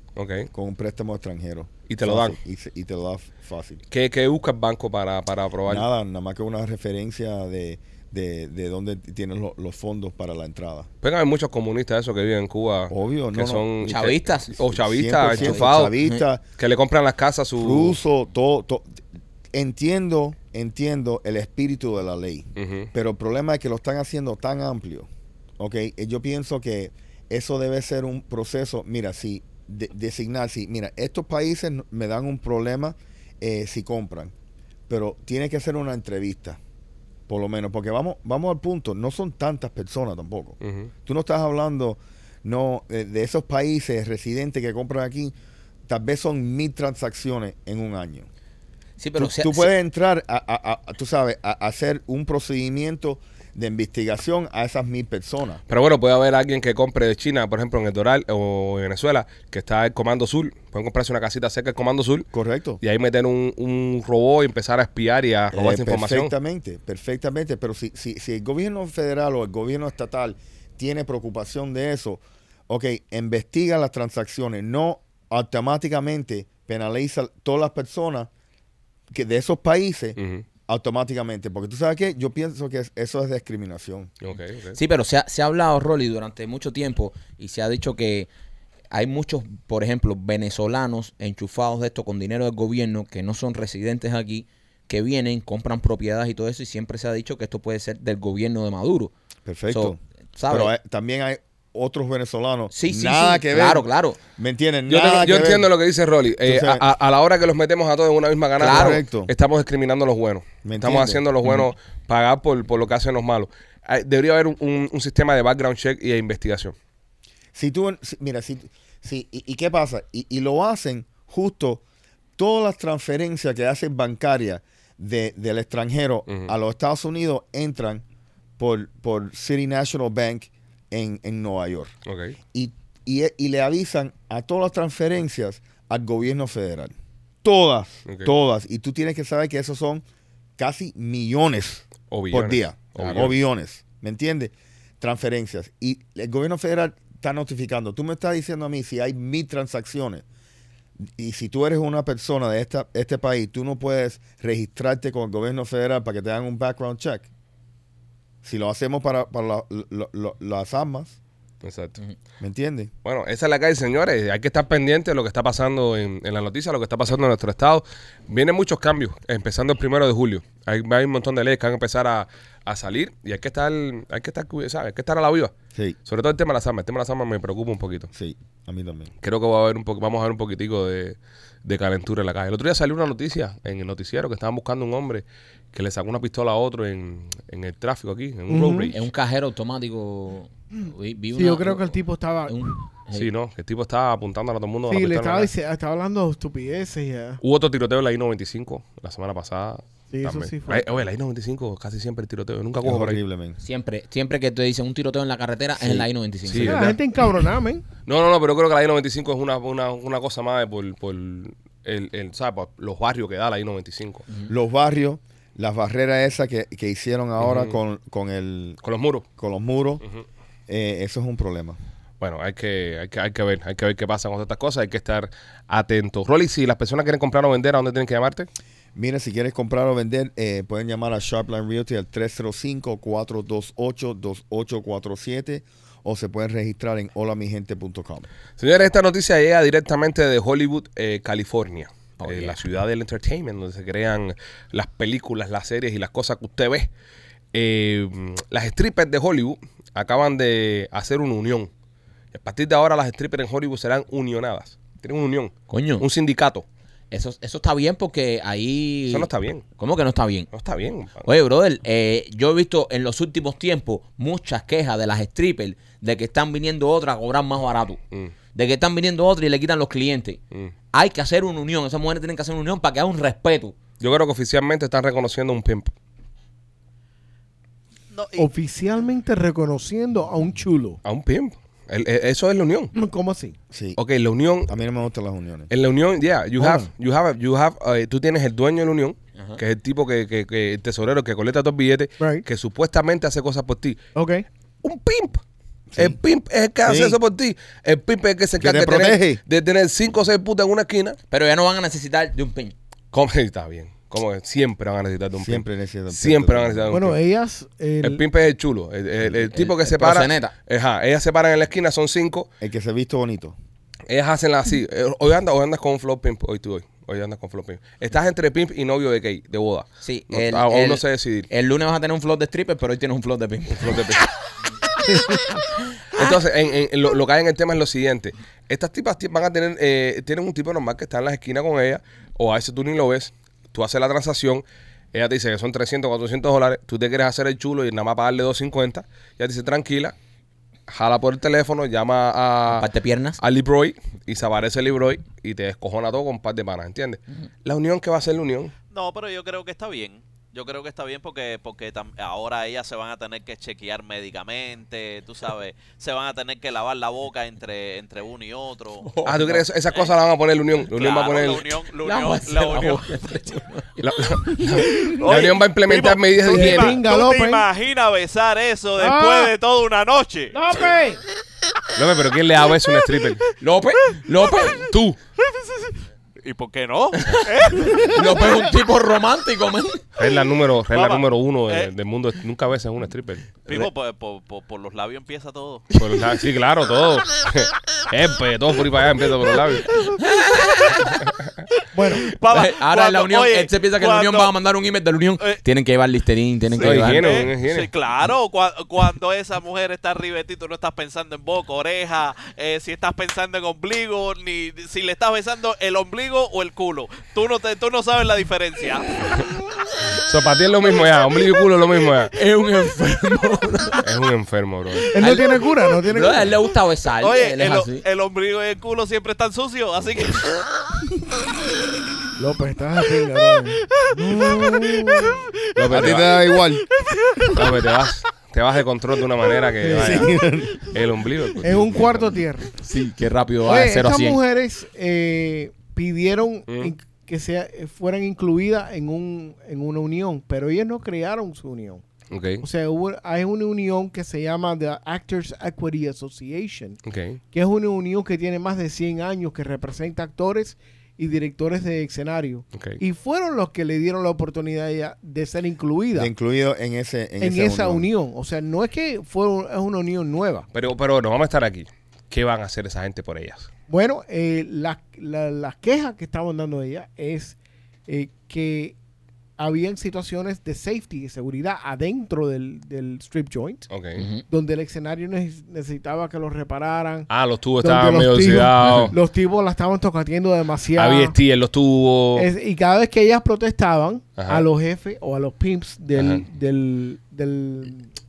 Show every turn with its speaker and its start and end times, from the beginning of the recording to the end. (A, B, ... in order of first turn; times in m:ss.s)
0:00.2-0:00.5 A
0:00.5-0:03.8 B
0:01.9-0:02.4 A
0:03.9-0:05.9 A
0:05.7-0:10.9 B
0:11.0-0:15.9 A
0:12.9-0:13.7 B
0:13.8-0:14.6 C
0:14.7-0:16.4 B
0:15.2-0:16.2 C
0:16.6-0:18.0 A
0:17.6-0:18.9 B
0:19.5-0:25.1 B
0:22.6-0:22.9 A
0:25.6-0:34.3 B
0:34.9-0:36.6 B
0:37.3-0:45.3 B
0:40.6-0:40.9 A
0:45.9-0:48.3 B
0:49.0-0:49.7 C
0:49.2-0:55.6 B
0:55.7-1:02.3 A
1:02.3-1:02.8 B
1:02.8-1:06.3 A
1:05.5-1:18.3 B
1:19.1-1:24.1 B
1:20.2-1:20.4 A
1:24.2-1:24.8 A
1:24.8-1:28.3 C
1:28.9-1:39.1 C
1:39.4-1:45.7 B
1:39.7-1:40.7 C
1:42.7-1:44.2 C
1:44.9-1:56.7 A
1:46.4-1:46.8 B
1:48.6-1:49.3 B
1:48.6-1:49.0 C
1:50.6-1:51.2 B
1:57.6-2:01.8 B
2:02.4-2:08.0 B
2:08.6-2:11.9 B
2:12.1-2:12.4 A
2:12.5-2:20.0 B
2:20.6-2:30.2 B
2:22.1-2:23.4 A
2:31.1-2:37.3 B
2:38.4-2:41.2 B
2:41.6-2:42.0 A
2:42.4-2:42.9 B
2:43.0-2:55.5 A
2:56.1-2:58.1 A
2:58.1-2:59.1 B
2:59.2-3:09.0 A
3:08.5-3:08.9 D
3:08.9-3:13.3 C
3:11.3-3:12.8 D
3:13.2-3:15.5 A
3:14.9-3:17.4 D
3:17.4-3:23.2 A
3:20.1-3:21.0 D
3:22.8-3:23.6 B
3:23.6-3:26.9 C
3:25.8-3:26.1 B
3:26.5-3:27.0 A
3:26.6-3:27.8 D
3:28.1-3:34.2 A
3:34.5-3:38.8 B
3:37.4-3:37.8 A
3:38.8-3:39.2 A
3:39.4-3:40.0 B
3:40.7-3:41.8 B
3:42.2-3:48.5 A
3:49.0-3:58.3 B
3:58.6-4:06.9 A
4:02.2-4:02.6 C
4:07.5-4:11.7 A
4:12.3-4:16.6 A
4:15.7-4:16.0 C
4:17.1-4:20.5 C
4:19.1-4:19.6 A
4:20.5-4:21.3 A
4:21.2-4:28.0 C
4:28.5-4:30.4 C
4:30.9-4:33.8 C
4:34.0-4:35.9 A
4:38.1-4:38.5 E
4:38.4-4:41.0 D
4:41.0-4:42.9 A
4:42.9-4:43.6 D
4:43.7-4:44.0 B
4:44.0-4:44.7 A
4:44.7-4:45.7 B
4:45.7-4:54.0 A
4:46.6-4:46.9 D
4:52.2-4:52.4 D
4:54.2-4:54.5 D
4:54.8-4:55.4 A
4:55.9-4:56.2 B
4:56.0-5:01.2 A
4:56.8-4:57.2 B
4:58.6-4:59.4 B
5:01.3-5:02.8 C
5:03.1-5:07.2 A
5:05.4-5:07.1 B
5:06.9-5:08.2 D
5:08.0-5:12.5 A
5:09.4-5:10.5 C
5:12.6-5:13.6 B
5:14.1-5:21.5 A
5:20.0-5:24.2 C
5:23.7-5:24.2 A
5:25.2-5:26.4 C
5:26.1-5:40.2 A
5:40.9-5:42.9 A
5:42.7-5:43.4 C
5:43.4-5:48.7 A
5:48.9-5:59.2 E
5:59.0-5:59.6 C
5:59.2-6:01.8 A
6:00.8-6:03.3 E
6:02.0-6:04.6 C
6:04.0-6:07.0 A
6:05.0-6:10.6 E
6:06.5-6:07.7 D
6:09.0-6:09.5 D
6:10.5-6:11.2 D
6:12.0-6:13.5 A
6:13.6-6:14.9 C
6:14.9-6:15.2 A
6:16.4-6:18.7 E
6:17.2-6:20.0 C
6:20.2-6:23.6 A
6:20.9-6:21.9 E
6:23.7-6:25.8 E
6:25.9-6:29.9 A
6:30.1-6:31.2 C
6:31.9-6:32.3 D
6:32.2-6:34.5 E
6:32.5-6:37.5 C
6:36.7-6:49.5 E
6:36.8-6:37.9 A
6:50.1-6:52.3 A
6:52.3-6:54.0 C
6:54.0-6:55.1 A
6:55.1-6:56.5 D
6:55.2-6:58.0 C
6:57.2-7:00.7 E
7:02.4-7:05.4 D
7:03.9-7:05.4 E
7:05.8-7:06.4 A
7:05.8-7:06.8 B
7:07.0-7:07.7 E
7:07.5-7:12.1 A
7:09.8-7:10.4 D
7:09.9-7:10.8 B
7:11.6-7:12.8 D
7:11.6-7:12.3 B
7:12.8-7:14.4 C
7:13.6-7:22.0 D
7:16.7-7:16.9 A
7:22.3-7:22.7 A
7:22.6-7:27.0 D
7:27.1-7:27.4 A
7:27.5-7:36.3 D
7:32.7-7:33.0 A
7:36.1-7:38.1 B
7:37.4-7:40.7 D
7:40.7-7:43.7 A
7:43.9-7:47.6 D
7:48.1-7:49.0 D
7:49.6-7:53.9 D
7:53.9-7:54.2 A
7:54.2-7:54.4 C
7:54.5-7:57.3 D
7:57.3-7:59.1 A
7:57.8-8:01.4 D
7:58.8-7:59.1 C
8:01.0-8:02.5 A
8:02.4-8:08.1 D
8:04.4-8:04.7 A
8:06.2-8:06.4 A